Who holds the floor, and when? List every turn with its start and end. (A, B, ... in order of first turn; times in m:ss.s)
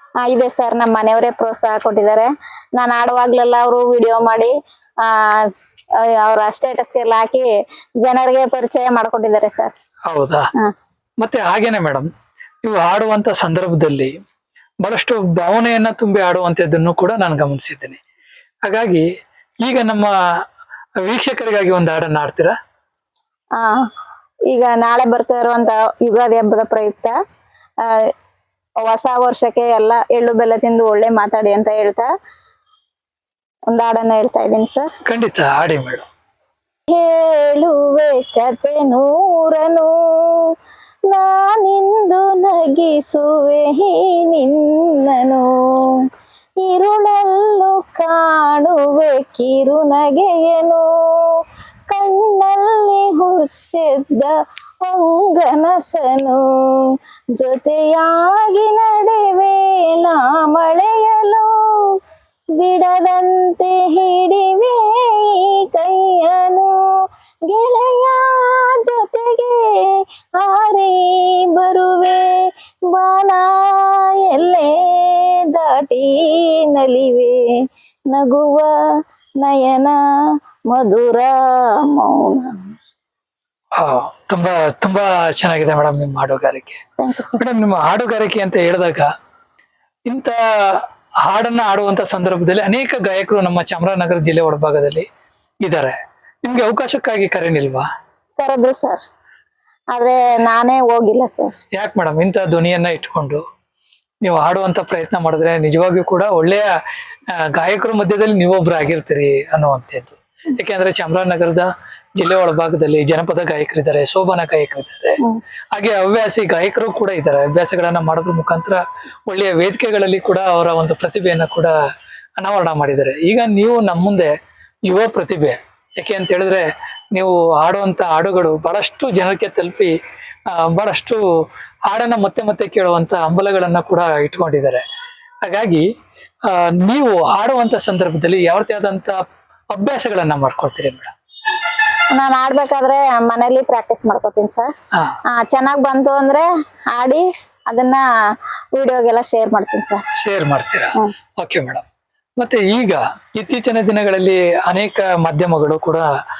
0:00.2-0:05.5 A
0:06.0-0:07.5 A
0:08.0-0:09.7 A
0:10.1-0:10.5 B
0:11.2-0:12.1 B
0:12.6-0:14.1 B
0:14.8-0:18.0 B
0:18.6-0:19.0 B
0:19.6-0:20.1 B
0:21.0-0:22.5 B
0:23.6-0:23.8 A
0:24.5-0:27.1 A
0:27.8-0:28.1 A
0:28.8-0:32.1 A
0:33.7-0:34.9 A
0:35.1-0:36.1 B
0:36.9-0:40.5 A
0:41.1-0:46.0 A
0:46.6-1:02.0 A
1:02.6-1:06.8 A
1:07.5-1:17.6 A
1:18.1-1:18.8 A
1:19.4-1:20.0 A
1:20.7-1:22.7 A
1:23.8-1:26.8 B
1:27.0-1:27.4 A
1:27.4-1:29.1 B
1:30.1-1:35.1 B
1:35.6-1:37.8 B
1:38.4-1:39.0 A
1:39.9-1:41.5 A
1:41.8-1:43.4 B
1:44.2-1:46.7 B
1:47.3-1:55.2 B
1:55.7-2:01.7 B
2:02.4-2:04.3 B
2:04.8-2:09.9 B
2:10.5-2:11.2 B
2:11.9-2:14.8 B
2:15.4-2:15.8 B
2:16.4-2:19.2 B
2:19.7-2:21.1 B
2:22.1-2:24.7 A
2:25.3-2:28.0 A
2:28.7-2:30.0 A
2:30.2-2:31.8 B
2:32.4-2:36.1 B